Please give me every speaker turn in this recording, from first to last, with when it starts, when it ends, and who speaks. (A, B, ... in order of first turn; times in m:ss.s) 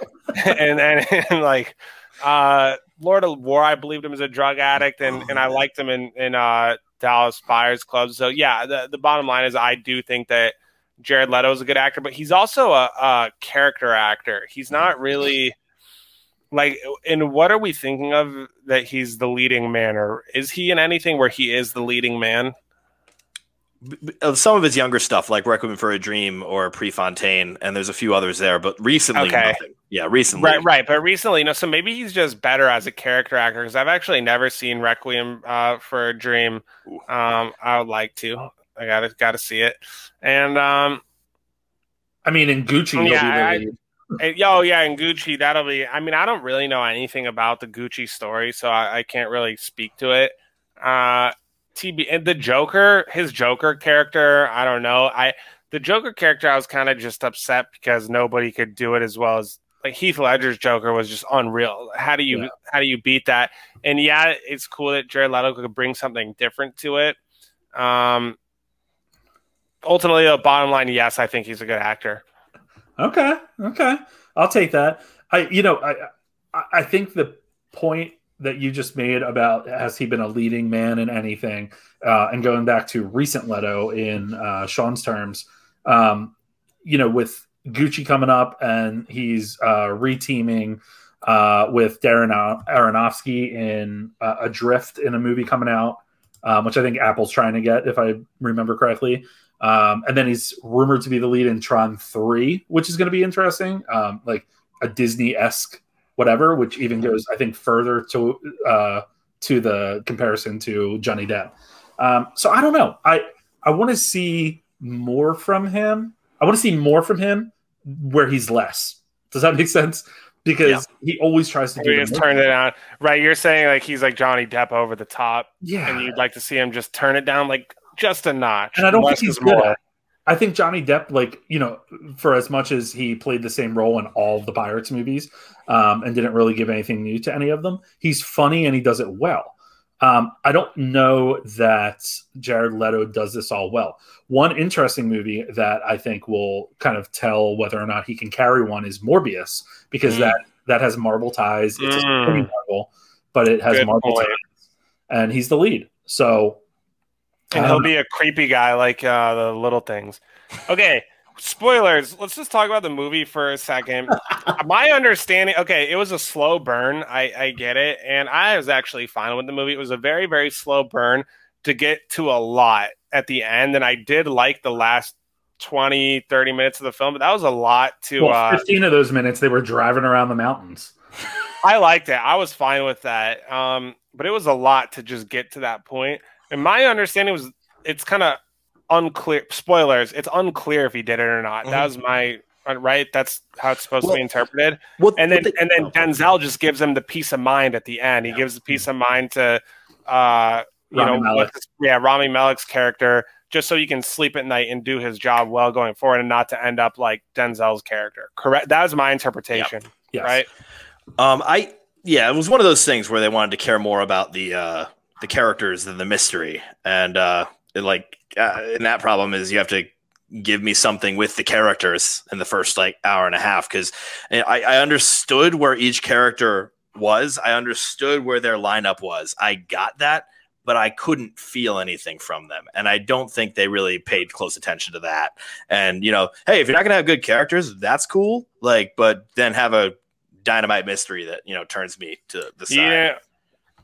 0:00.3-0:15.6 A
0:16.5-0:22.6 A
0:23.8-0:30.7 B
0:29.2-0:29.6 A
0:30.4-0:41.0 A
0:42.2-0:43.8 C
0:43.0-0:43.6 A
0:44.2-1:07.2 A
1:07.8-1:08.4 A
1:09.8-1:12.2 A
1:13.0-2:02.4 C
2:01.8-2:09.8 A
2:05.6-2:06.1 C
2:08.8-2:09.8 C
2:10.3-2:34.5 C
2:30.1-2:30.4 A
2:31.8-2:32.5 A
2:33.7-2:34.4 A
2:35.1-2:36.6 C
2:37.5-2:58.6 A
2:37.5-2:37.9 C
2:58.2-3:00.9 C
3:01.6-3:30.5 A
3:15.0-3:16.0 B
3:20.9-3:21.5 C
3:30.1-3:30.4 C
3:31.2-4:03.1 B
4:02.7-4:03.2 A